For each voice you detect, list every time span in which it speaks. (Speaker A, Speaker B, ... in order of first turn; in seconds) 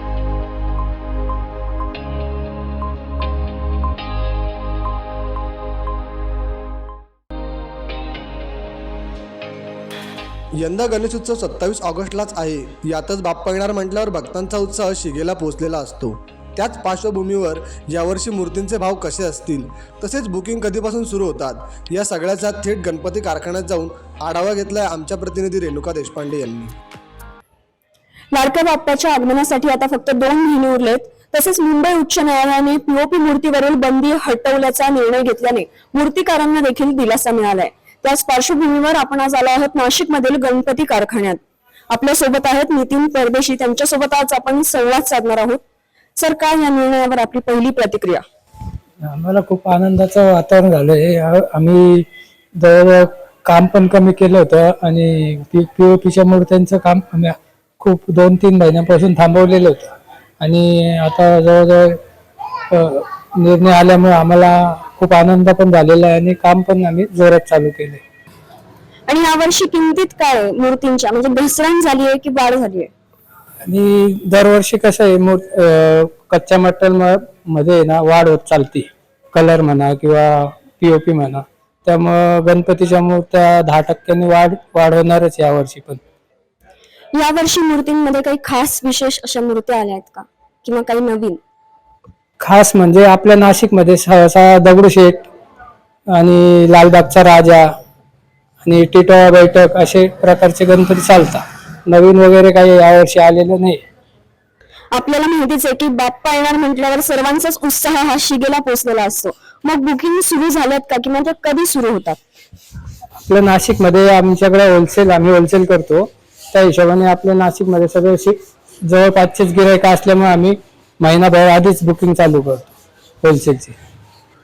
Speaker A: 10.6-26.8
Speaker B: 28.3-45.6, 46.2-48.2, 69.1-72.9, 87.1-91.4, 104.9-112.2
Speaker C: 49.0-62.0, 62.7-68.0, 73.7-86.0, 92.4-95.3, 96.1-97.7, 98.6-103.8, 113.2-122.7, 123.2-123.8